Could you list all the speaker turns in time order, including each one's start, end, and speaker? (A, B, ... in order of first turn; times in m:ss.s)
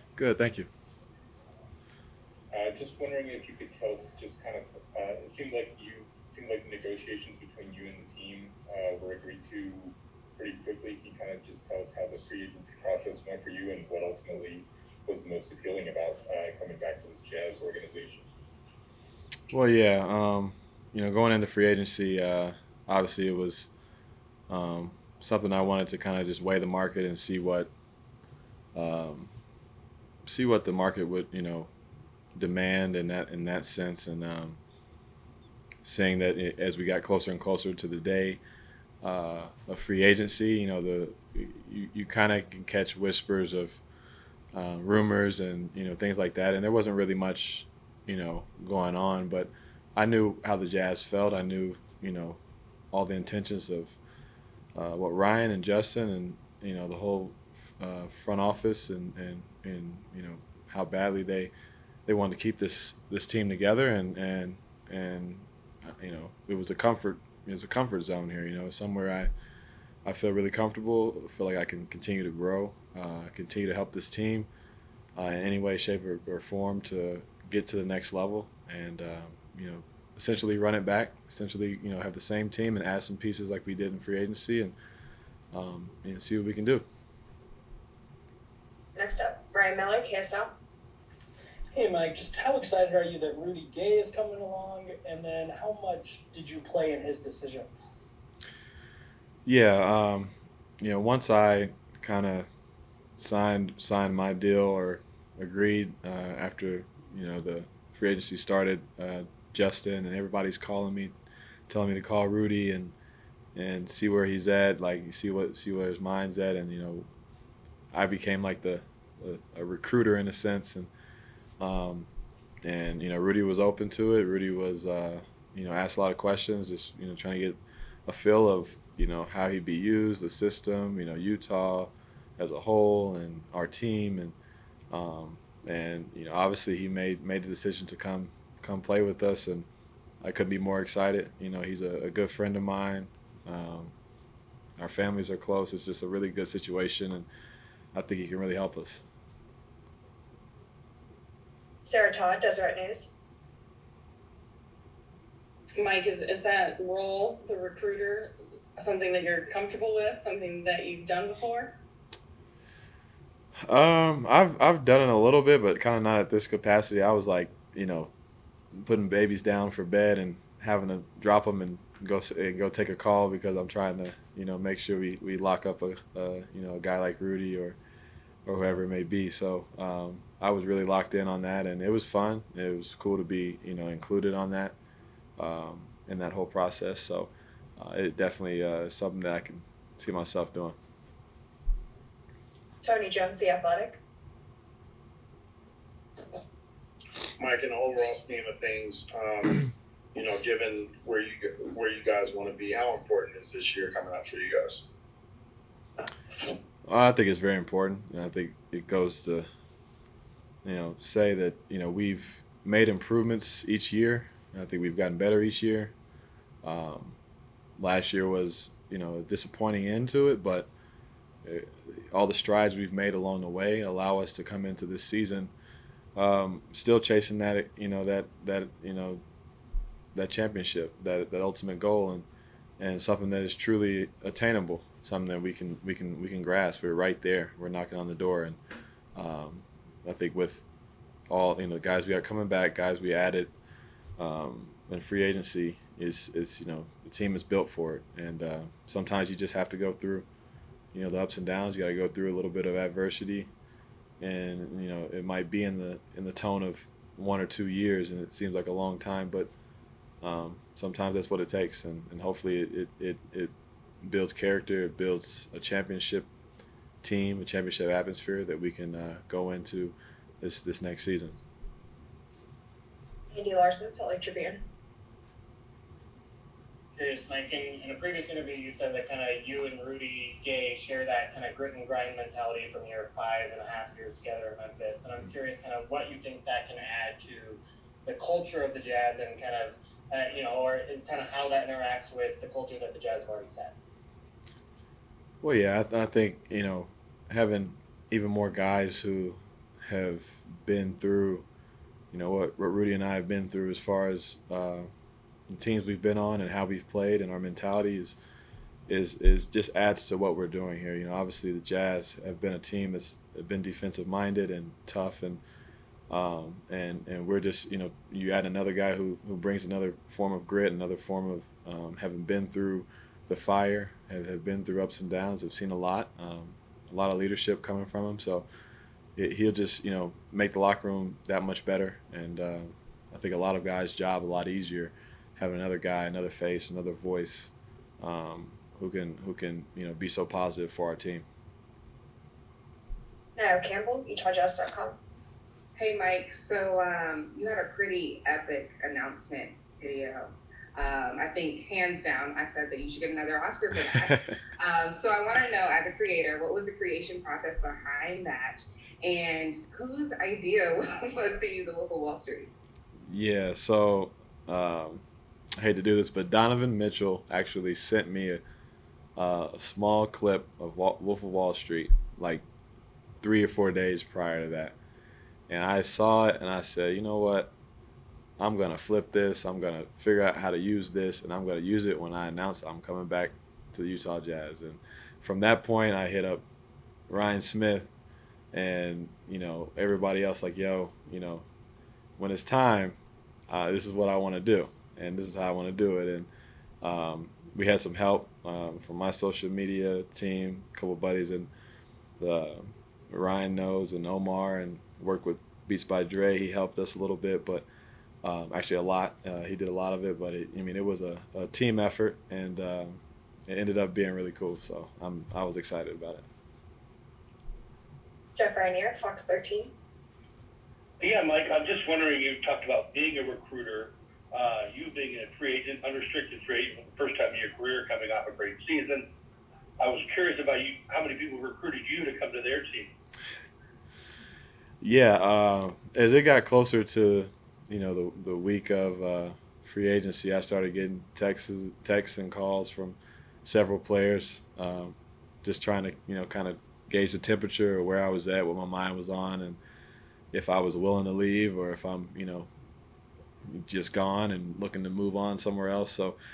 0:00.2-0:00.7 A
0:02.5-0:18.3 B
0:19.5-0:23.7 A
0:24.5-0:27.7 A
0:28.8-0:29.3 A
0:30.3-0:31.7 A
0:32.4-0:34.6 A
0:35.8-0:38.4 A
0:39.0-0:43.8 A
0:44.5-0:52.4 A
0:52.9-0:54.0 A
0:54.8-1:01.5 A
1:02.1-1:09.3 A
1:10.0-1:14.5 A
1:15.2-1:24.8 A
1:25.5-1:26.8 A
1:29.0-1:30.5 C
1:31.7-1:37.7 D
1:39.5-1:42.5 A
1:43.2-1:51.1 A
1:51.7-1:53.0 A
1:53.6-1:57.1 A
1:57.9-2:00.9 A
2:01.6-2:02.1 A
2:02.6-2:14.4 A
2:14.9-2:19.7 A
2:20.2-2:23.9 A
2:24.8-2:27.3 A
2:27.9-2:29.0 A
2:31.8-2:33.1 C
2:35.8-2:41.8 E
2:43.7-2:48.1 A
2:48.8-2:57.8 A
2:58.5-3:04.8 A
3:05.4-3:10.8 A
3:12.8-3:14.0 C
3:17.4-3:24.8 F
3:26.9-3:29.5 A
3:30.6-3:35.9 A
3:36.6-3:37.2 A
3:37.8-3:40.7 A
3:41.4-3:45.5 A
3:46.2-3:49.2 A
3:50.1-3:52.3 A
3:52.8-3:58.6 A
3:59.2-4:00.7 A
4:01.3-4:03.5 A
4:04.2-4:10.3 A
4:10.9-4:13.5 A
4:14.2-4:19.5 A
4:20.2-4:26.3 A
4:27.0-4:31.4 A
4:33.3-4:34.6 C
4:37.0-4:53.7 G
4:55.4-5:01.5 A
5:02.1-5:04.9 A
5:05.5-5:08.2 A
5:08.9-5:15.4 A
5:16.1-5:28.5 A
5:29.2-5:41.2 A
5:43.4-5:45.0 C
5:45.8-6:02.5 H
6:03.1-6:05.0 A
6:05.6-6:08.4 A
6:09.2-6:12.4 A
6:13.2-6:14.8 A
6:15.5-6:17.5 A
6:18.4-6:26.4 A
6:27.1-6:27.9 A
6:28.5-6:31.5 A
6:32.2-6:33.0 A
6:33.5-6:36.3 A
6:36.8-6:41.5 A
6:42.2-6:47.7 A
6:48.2-6:56.3 A
6:58.4-6:59.7 C
7:01.0-7:09.1 I
7:09.8-7:12.9 I
7:14.8-7:29.6 A
7:30.3-7:32.5 A
7:33.5-7:36.2 A